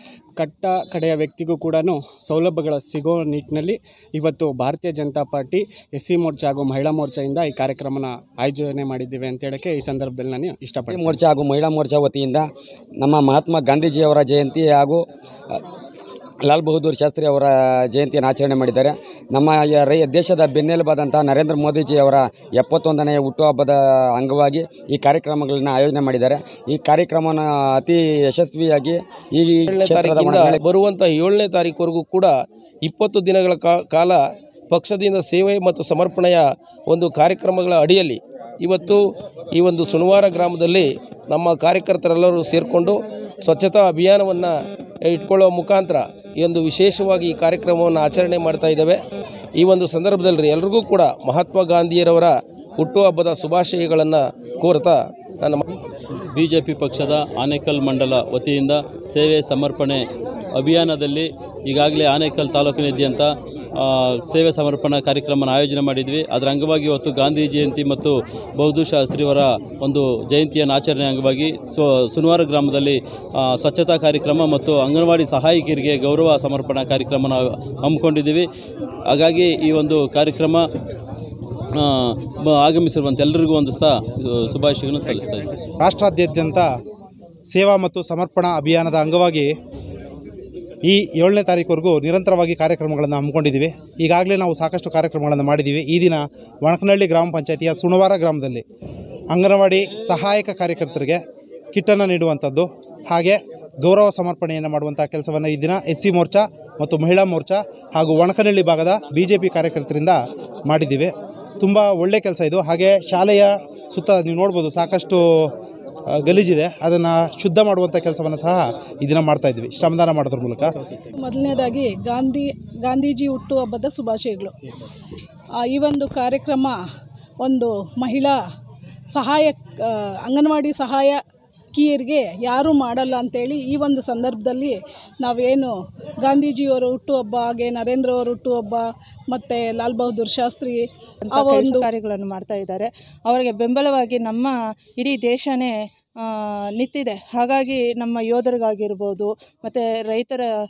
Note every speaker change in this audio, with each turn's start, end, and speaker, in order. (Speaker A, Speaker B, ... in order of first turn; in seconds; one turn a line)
Speaker A: 0.4-11.2
Speaker B: 10.9-12.4
Speaker B: 13.0-15.0
Speaker B: 16.4-30.6
Speaker C: 29.7-32.3
Speaker C: 32.9-34.2
Speaker C: 34.7-39.0
Speaker C: 39.5-42.9
Speaker C: 43.5-44.5
Speaker C: 45.1-49.0
Speaker C: 49.6-55.6
Speaker D: 56.3-60.0
Speaker D: 60.5-78.5
Speaker D: 79.1-80.6
Speaker D: 81.7-85.6
Speaker E: 85.8-86.7
Speaker E: 87.5-89.5
Speaker E: 90.8-98.6
Speaker E: 99.3-101.2
Speaker E: 101.7-115.5
Speaker E: 116.1-120.7
Speaker F: 121.2-124.5
Speaker F: 125.7-126.8
Speaker F: 127.4-128.3
Speaker F: 129.1-131.2
Speaker F: 131.7-141.8
Speaker G: 141.3-150.4